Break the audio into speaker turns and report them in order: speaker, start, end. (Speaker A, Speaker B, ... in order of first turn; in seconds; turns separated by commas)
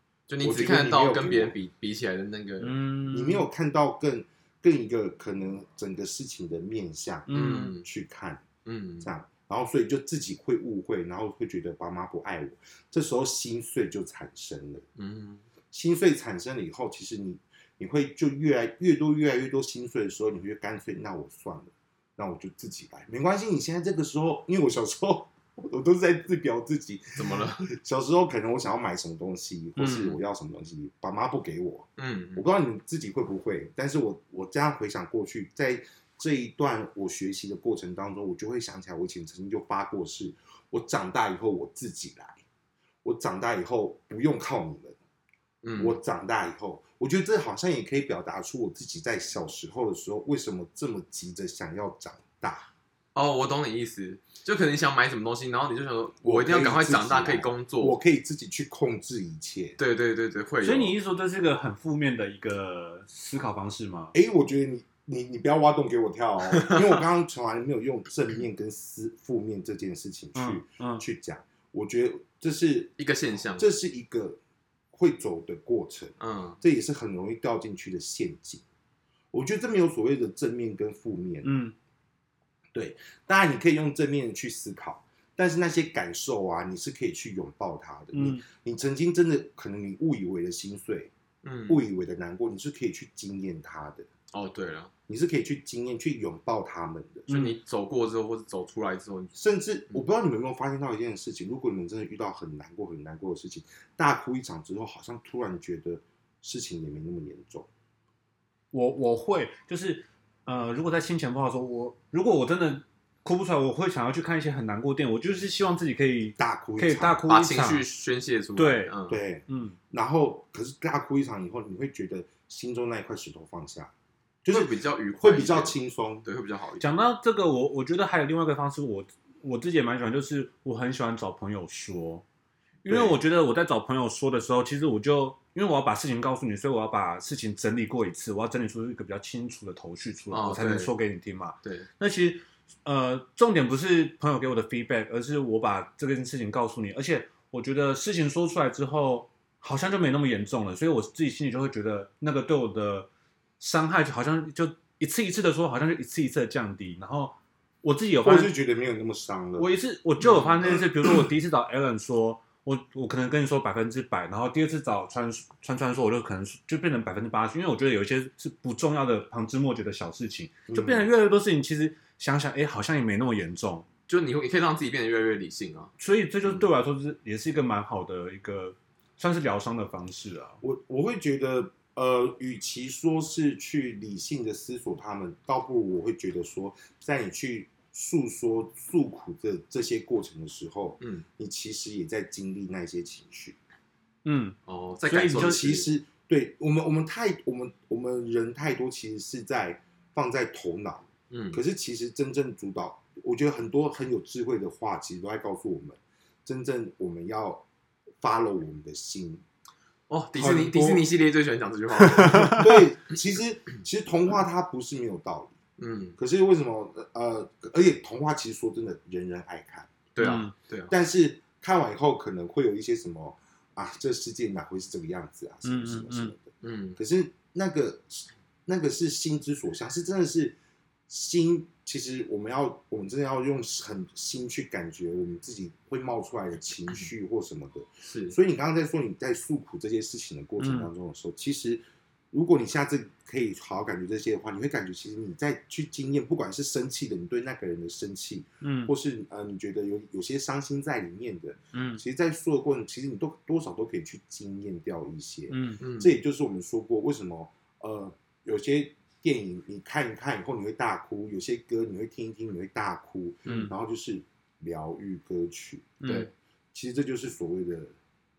Speaker A: 0.3-2.8, Speaker B: 0.4-1.5, Speaker C: 2.6-3.5, Speaker B: 3.1-8.4, Speaker C: 7.3-7.8, Speaker A: 7.3-7.9, Speaker A: 8.7-9.1, Speaker B: 9.0-14.9, Speaker A: 15.0-15.4, Speaker B: 15.7-42.4, Speaker A: 27.2-27.7, Speaker C: 29.8-30.2, Speaker A: 32.0-32.5, Speaker B: 43.0-45.0, Speaker A: 45.6-46.0, Speaker B: 45.8-52.7, Speaker A: 53.1-58.0, Speaker B: 56.2-59.8, Speaker A: 59.8-61.0, Speaker C: 60.6-64.1, Speaker B: 64.1-73.0, Speaker A: 66.5-67.0, Speaker C: 70.3-71.0, Speaker A: 73.0-73.7, Speaker B: 73.6-74.4, Speaker B: 74.9-78.6, Speaker A: 76.2-76.6, Speaker B: 79.3-81.5, Speaker C: 81.4-81.7, Speaker B: 82.7-91.1, Speaker C: 88.1-88.4, Speaker A: 91.4-91.8, Speaker B: 91.7-94.1, Speaker A: 94.3-94.9, Speaker B: 95.1-97.3, Speaker A: 97.3-99.3, Speaker C: 97.3-97.6, Speaker B: 99.3-107.7, Speaker C: 108.7-117.9, Speaker B: 116.4-117.2, Speaker A: 117.3-119.2, Speaker C: 118.6-119.0, Speaker B: 119.1-123.9, Speaker C: 119.5-119.8, Speaker B: 124.4-126.3, Speaker A: 124.5-126.9, Speaker C: 126.8-132.2, Speaker C: 132.8-153.1, Speaker B: 132.9-133.2, Speaker A: 140.3-140.9, Speaker A: 141.6-141.9, Speaker C: 153.6-158.5, Speaker B: 158.2-159.7, Speaker C: 159.6-173.9, Speaker A: 160.2-160.7, Speaker B: 170.7-171.1, Speaker A: 174.1-175.9, Speaker C: 176.0-180.6, Speaker B: 180.6-193.6, Speaker A: 191.0-191.2, Speaker C: 194.2-195.7, Speaker A: 194.7-195.9, Speaker B: 195.3-207.7, Speaker A: 201.3-201.6, Speaker B: 208.2-209.4, Speaker A: 210.1-212.7, Speaker B: 210.4-211.1, Speaker C: 212.2-212.7, Speaker B: 212.5-215.6, Speaker A: 215.8-216.2, Speaker B: 216.2-230.6, Speaker A: 220.2-220.9, Speaker C: 220.2-220.5, Speaker C: 225.7-226.3, Speaker A: 226.6-227.0, Speaker B: 231.1-266.0, Speaker A: 238.1-238.4, Speaker C: 240.6-240.9, Speaker C: 248.6-248.9, Speaker C: 251.7-252.0, Speaker C: 255.5-255.8, Speaker A: 255.8-256.1, Speaker A: 263.4-263.7, Speaker C: 263.5-263.7, Speaker C: 266.0-266.3, Speaker A: 266.0-266.3, Speaker B: 266.7-268.0